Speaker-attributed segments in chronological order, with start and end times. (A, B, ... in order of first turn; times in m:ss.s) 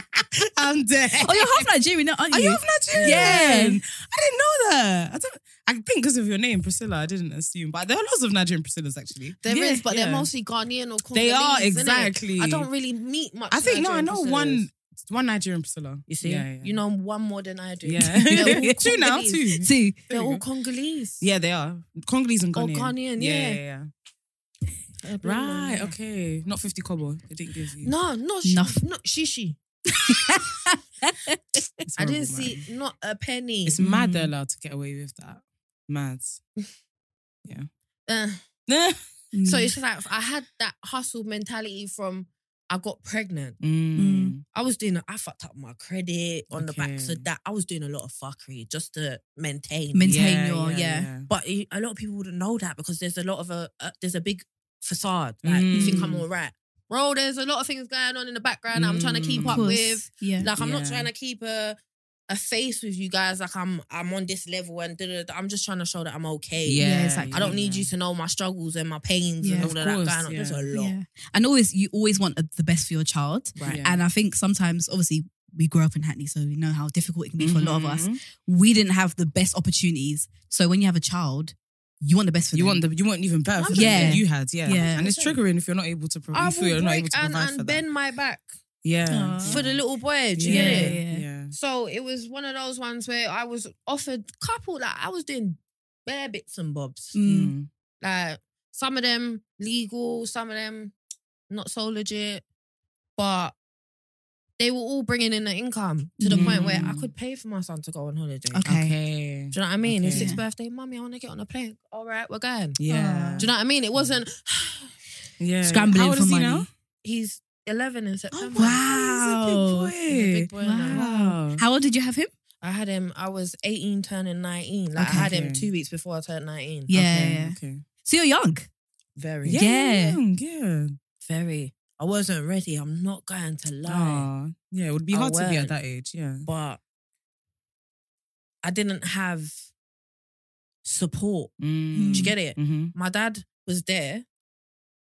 0:00.4-0:01.6 A
0:01.2-0:03.8 B
0:02.3-0:10.3 A
0:02.9-0:03.5 C
0:09.4-0:14.7 C
0:09.5-0:09.8 B
0:11.1-0:12.7 A
0:13.5-0:16.8 A
0:16.1-0:21.2 C
0:17.8-0:20.4 A
0:18.3-0:18.8 B
0:19.6-0:20.0 B
0:21.2-0:23.9 A
0:22.5-0:23.6 C
0:25.0-0:25.9 C
0:25.2-0:27.9 A
0:27.8-0:29.6 C
0:28.4-0:28.8 B
0:29.9-0:31.6 B
0:31.8-0:32.6 A
0:32.0-0:33.8 C
0:33.6-0:36.4 A
0:33.8-0:34.3 B
0:38.1-0:38.4 C
0:38.7-0:39.0 A
0:39.3-0:39.7 B
0:39.4-0:43.6 C
0:43.6-0:44.4 A
0:44.0-0:44.3 B
0:44.5-0:50.2 C
0:46.5-0:47.3 A
0:49.9-0:51.1 B
0:50.0-0:51.3 A
0:51.2-1:01.8 C
0:55.4-0:56.2 A
0:55.7-0:56.2 B
0:58.7-0:59.7 A
0:59.4-1:00.5 B
1:00.6-1:01.1 A
1:02.3-1:11.0 C
1:06.6-1:07.9 A
1:06.8-1:07.5 B
1:09.4-1:09.7 B
1:09.6-1:10.6 A
1:10.7-1:22.8 B
1:13.6-1:13.8 C
1:13.6-1:14.0 A
1:17.4-1:18.2 A
1:22.5-1:27.8 A
1:23.6-1:25.4 C
1:23.7-1:25.0 B
1:26.3-1:28.5 C
1:28.8-1:29.8 A
1:29.1-1:29.6 B
1:29.4-1:31.0 C
1:30.3-1:31.5 A
1:30.4-1:31.2 B
1:31.5-1:37.1 C
1:37.1-1:37.5 B
1:37.2-1:37.7 A
1:38.0-1:40.9 C
1:41.5-1:42.4 C
1:43.2-1:43.5 C
1:44.6-1:48.7 C
1:46.2-1:46.8 B
1:46.3-1:47.1 A
1:48.5-1:48.9 B
1:48.6-1:50.3 A
1:49.5-1:52.8 C
1:50.1-1:50.4 B
1:52.8-1:53.5 A
1:52.9-1:53.5 B
1:53.4-1:54.9 C
1:55.4-1:56.7 A
1:55.6-1:56.7 B
1:57.0-1:58.8 C
1:58.4-2:01.6 A
1:58.5-1:59.9 B
2:00.1-2:01.0 C
2:00.6-2:02.3 B
2:02.6-2:06.9 C
2:05.0-2:05.3 B
2:05.0-2:05.7 A
2:06.9-2:08.7 B
2:06.9-2:07.8 A
2:09.2-2:09.6 C
2:09.4-2:11.0 A
2:09.6-2:10.2 B
2:11.2-2:14.3 C
2:13.8-2:16.4 A
2:15.1-2:15.7 C
2:16.4-2:16.8 C
2:18.6-2:19.6 C
2:20.8-2:21.5 C
2:21.6-2:22.9 A
2:21.9-2:22.3 B
2:22.1-2:24.2 C